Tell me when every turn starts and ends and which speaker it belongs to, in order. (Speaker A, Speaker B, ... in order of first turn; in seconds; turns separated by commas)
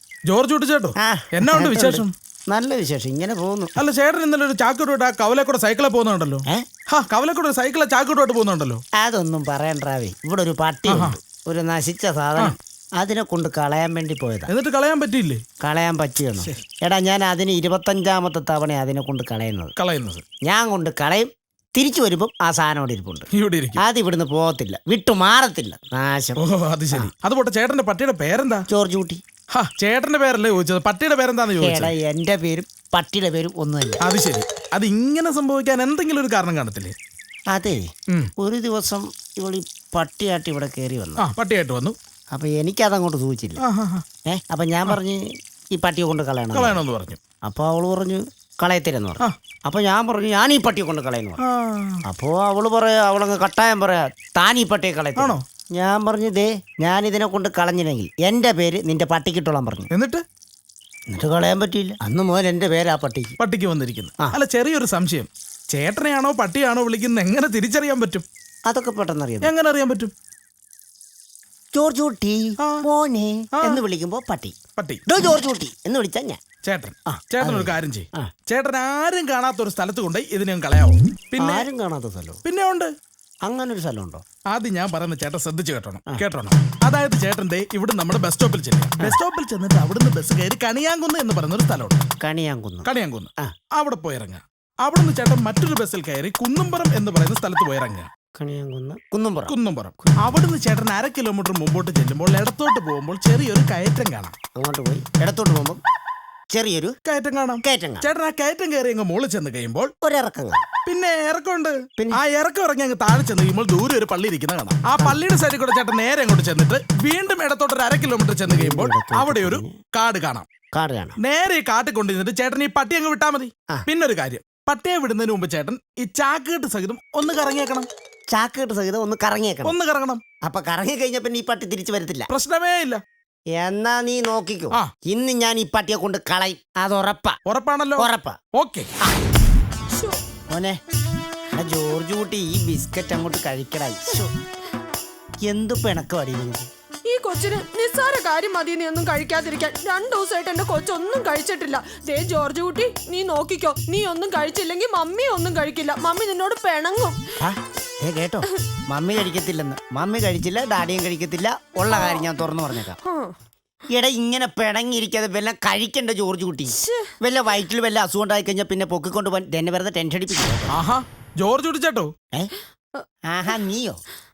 Speaker A: 0.3-2.1, Speaker B: 1.0-3.7, Speaker A: 3.8-8.8, Speaker B: 9.0-14.5, Speaker A: 10.9-11.2, Speaker A: 14.5-15.4, Speaker B: 15.6-19.7, Speaker A: 19.8-20.2, Speaker B: 20.4-23.3, Speaker A: 23.3-23.8, Speaker B: 23.8-26.4, Speaker A: 26.4-28.6, Speaker B: 28.7-29.2, Speaker A: 29.5-31.9, Speaker B: 31.6-34.0, Speaker A: 34.0-36.9, Speaker B: 37.5-41.3, Speaker A: 41.2-42.0, Speaker B: 42.3-43.6, Speaker A: 43.6-44.0, Speaker B: 44.2-46.8, Speaker A: 46.5-47.2, Speaker B: 47.4-51.4, Speaker A: 51.4-52.0, Speaker B: 52.0-59.9, Speaker A: 55.2-55.4, Speaker A: 59.9-60.2, Speaker B: 61.1-63.3, Speaker A: 63.4-68.2, Speaker B: 68.7-69.5, Speaker A: 69.4-70.1, Speaker B: 71.7-74.5, Speaker A: 74.8-75.0, Speaker B: 75.1-76.4, Speaker A: 76.6-81.7, Speaker B: 77.1-78.3, Speaker B: 81.4-82.4, Speaker A: 82.4-82.9, Speaker B: 83.4-84.2, Speaker A: 84.5-92.0, Speaker B: 92.2-92.9, Speaker A: 92.8-98.1, Speaker B: 98.3-99.5, Speaker A: 99.5-104.3, Speaker B: 104.5-105.8, Speaker B: 106.5-106.9, Speaker A: 107.0-109.9, Speaker B: 107.6-108.1, Speaker B: 110.0-110.6, Speaker A: 110.8-120.5, Speaker B: 114.8-115.2, Speaker B: 118.5-119.7, Speaker B: 120.7-121.2, Speaker A: 121.2-127.9, Speaker B: 128.3-129.7, Speaker A: 129.6-130.2, Speaker B: 130.4-132.3, Speaker A: 132.3-133.0, Speaker B: 133.5-137.4, Speaker A: 137.4-138.9, Speaker B: 138.0-138.4, Speaker C: 139.9-140.2, Speaker B: 140.5-140.8, Speaker B: 141.5-144.3, Speaker B: 145.4-146.7, Speaker C: 147.1-157.2, Speaker B: 157.4-163.0, Speaker C: 161.9-162.2, Speaker C: 163.0-163.3, Speaker B: 163.9-170.7, Speaker C: 166.8-167.1, Speaker A: 170.7-172.1, Speaker B: 173.3-174.0